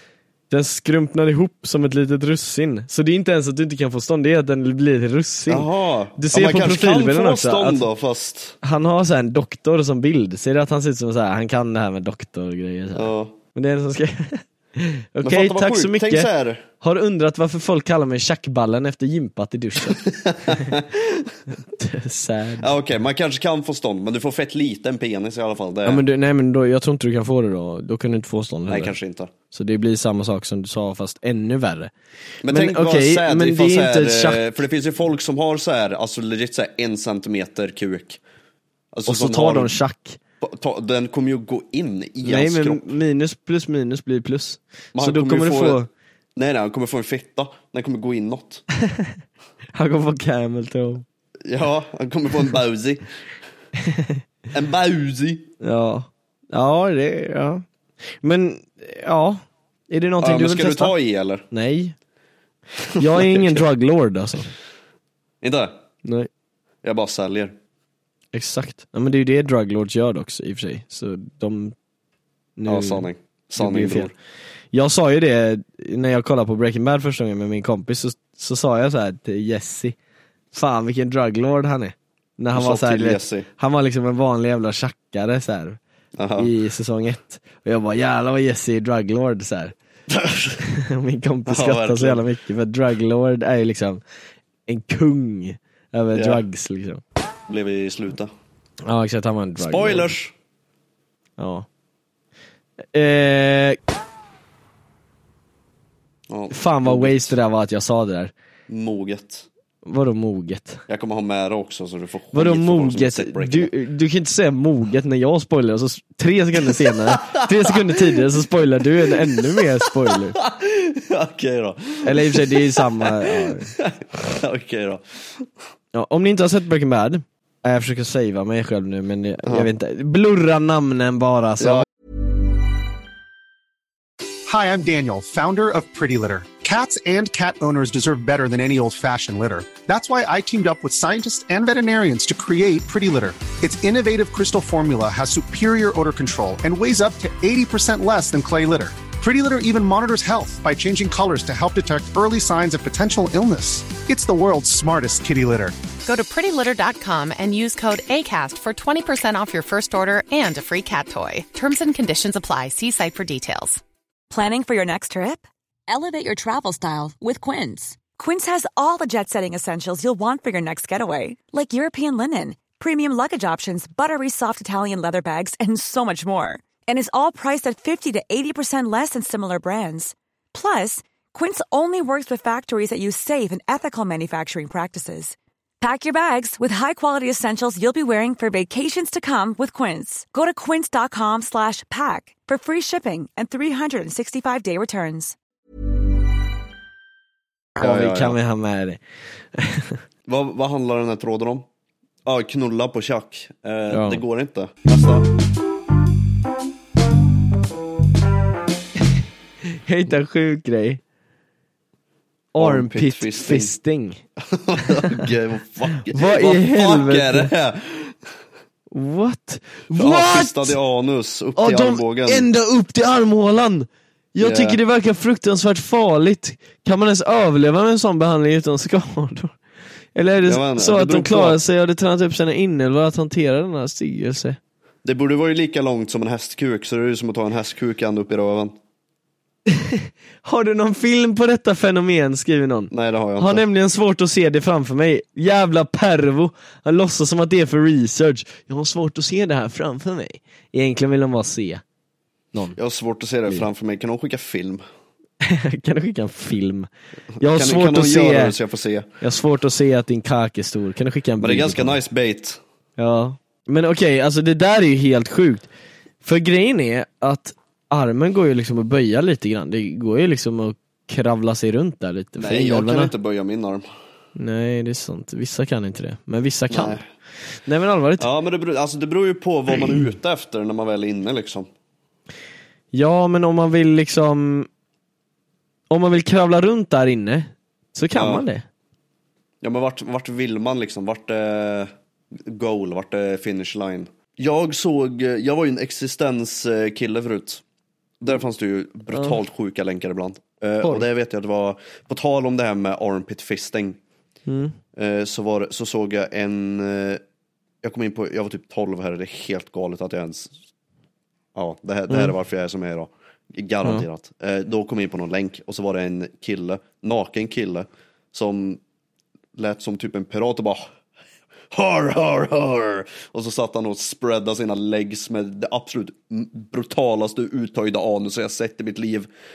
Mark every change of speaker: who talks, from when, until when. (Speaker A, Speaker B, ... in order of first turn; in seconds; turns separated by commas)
Speaker A: 0.5-7.9, Speaker B: 5.5-8.6, Speaker A: 8.6-16.3, Speaker B: 12.9-13.3, Speaker B: 15.2-16.6, Speaker A: 16.8-20.0, Speaker A: 21.7-22.7, Speaker B: 22.6-26.0, Speaker A: 25.8-28.9, Speaker B: 28.7-29.3, Speaker A: 29.5-31.9, Speaker B: 32.4-38.2, Speaker A: 32.5-34.4, Speaker B: 38.9-39.7, Speaker A: 39.1-40.2, Speaker B: 40.4-42.9, Speaker A: 42.2-45.9, Speaker B: 44.9-45.8, Speaker B: 46.4-48.6, Speaker A: 49.7-51.0, Speaker B: 51.5-53.0, Speaker B: 54.5-55.5, Speaker A: 55.6-57.6, Speaker A: 58.2-60.9, Speaker B: 60.2-61.4, Speaker A: 61.5-61.9, Speaker A: 63.0-64.5, Speaker B: 63.1-63.6, Speaker B: 65.4-65.7, Speaker A: 66.0-66.3, Speaker B: 66.8-67.5, Speaker A: 68.3-71.7, Speaker A: 72.6-74.1, Speaker B: 72.7-74.1, Speaker A: 74.7-79.9, Speaker A: 80.5-85.8, Speaker B: 82.5-83.5, Speaker B: 86.2-86.5, Speaker A: 86.3-89.7, Speaker B: 90.1-90.6, Speaker A: 90.6-94.0, Speaker B: 91.5-92.2, Speaker A: 94.7-97.0, Speaker B: 96.1-96.4, Speaker B: 97.5-98.3, Speaker A: 98.8-100.1, Speaker B: 99.6-100.3, Speaker A: 101.4-101.7, Speaker A: 102.9-103.8, Speaker B: 106.3-107.3, Speaker A: 106.5-108.3, Speaker B: 108.7-109.5, Speaker A: 109.8-110.8, Speaker B: 110.9-113.7, Speaker A: 112.3-120.3, Speaker B: 120.3-122.6, Speaker A: 122.0-123.7, Speaker B: 123.2-125.0, Speaker A: 125.9-131.8, Speaker B: 131.6-131.8, Speaker C: 134.5-155.7, Speaker D: 156.0-163.8, Speaker E: 164.3-195.3, Speaker A: 197.8-199.0, Speaker B: 197.8-198.4, Speaker A: 199.6-200.0, Speaker B: 200.3-201.6, Speaker B: 202.2-205.3, Speaker A: 203.9-204.2, Speaker A: 209.8-211.0, Speaker A: 212.5-214.2, Speaker B: 212.6-213.7, Speaker B: 214.5-218.1, Speaker A: 216.1-217.5, Speaker A: 218.9-220.8, Speaker B: 219.9-222.5, Speaker A: 221.6-229.5, Speaker B: 224.4-224.8, Speaker A: 230.1-234.6, Speaker B: 230.4-231.6, Speaker B: 235.0-238.7, Speaker A: 239.9-251.8, Speaker B: 242.9-243.6, Speaker B: 252.8-254.8, Speaker A: 255.4-256.9, Speaker A: 257.4-258.5, Speaker B: 257.4-259.1, Speaker A: 259.2-262.0, Speaker B: 261.4-262.6, Speaker A: 263.0-265.7, Speaker A: 266.2-273.1, Speaker B: 272.4-273.9, Speaker A: 274.4-277.0, Speaker B: 276.7-277.0, Speaker A: 277.6-278.3, Speaker B: 278.2-281.7, Speaker A: 282.9-284.7, Speaker A: 285.9-288.6, Speaker B: 288.1-288.4, Speaker B: 289.6-291.9, Speaker B: 292.5-297.6, Speaker B: 298.2-304.0, Speaker A: 304.5-304.7, Speaker B: 304.9-307.2, Speaker B: 307.8-310.5, Speaker B: 311.6-318.8, Speaker A: 312.1-312.3, Speaker B: 319.5-320.8, Speaker B: 321.7-329.3